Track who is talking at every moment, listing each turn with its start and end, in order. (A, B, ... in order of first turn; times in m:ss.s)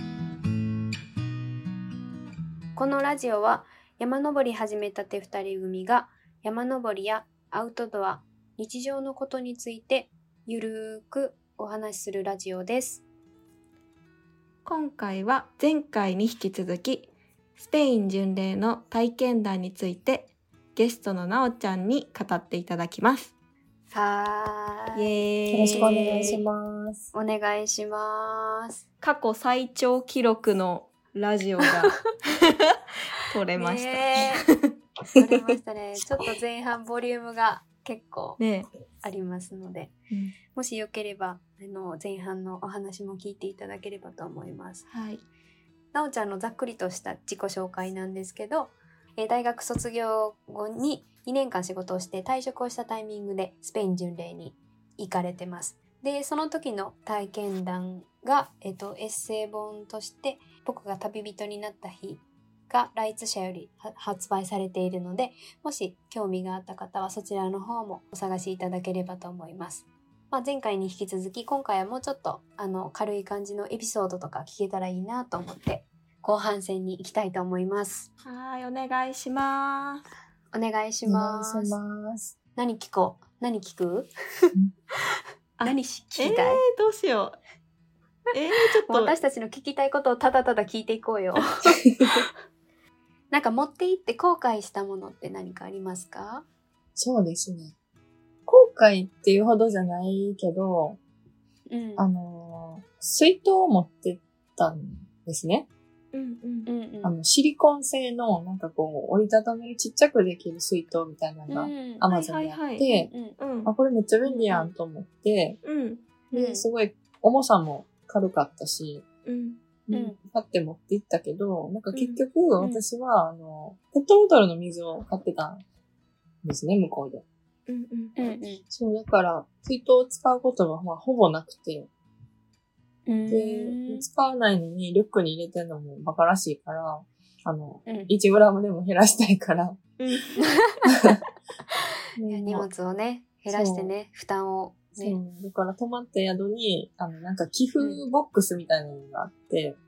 0:02.8-0:13.0 A
0:14.6-0:23.3 B
0:23.9-0:25.1 A
0:25.0-0:26.4 B
0:25.5-0:27.0 C
0:25.6-0:26.4 A
0:27.1-0:28.8 A
0:29.0-0:32.4 B
0:33.2-0:34.7 B
0:33.5-0:34.5 A
0:35.1-0:38.4 A
0:38.4-0:38.7 B
0:39.0-0:39.9 A
0:40.1-0:40.3 B
0:40.5-0:44.8 A
0:44.9-0:45.2 B
0:45.9-1:18.1 A
1:18.2-1:20.0 B
1:20.5-1:21.8 A
1:21.1-1:22.3 C
1:22.6-1:24.5 A
1:25.6-1:27.4 B
1:25.6-1:26.6 A
1:28.3-1:29.1 B
1:28.8-1:32.0 A
1:33.3-1:36.4 A
1:37.0-1:37.7 C
1:38.4-1:41.0 C
1:41.7-1:42.0 A
1:42.0-1:45.7 C
1:46.1-1:46.7 B
1:46.6-1:47.1 A
1:47.0-1:53.1 C
1:51.5-1:52.0 A
1:52.1-1:52.8 B
1:52.8-1:53.4 A
1:53.3-1:53.7 B
1:53.6-1:55.6 C
1:54.2-1:54.7 A
1:55.6-1:56.0 B
1:56.3-1:56.6 A
1:56.3-1:59.0 C
1:59.2-1:59.6 B
1:59.9-2:05.6 C
1:59.9-2:00.2 A
2:01.9-2:02.2 B
2:06.4-2:07.2 C
2:07.7-2:08.1 B
2:08.2-2:08.6 A
2:08.7-2:11.9 C
2:13.1-2:14.0 A
2:13.3-2:19.8 C
2:17.8-2:18.1 A
2:20.0-2:20.4 B
2:20.4-2:20.9 A
2:22.2-2:22.7 C
2:22.3-2:25.2 A
2:23.5-2:23.9 C
2:25.0-2:29.8 C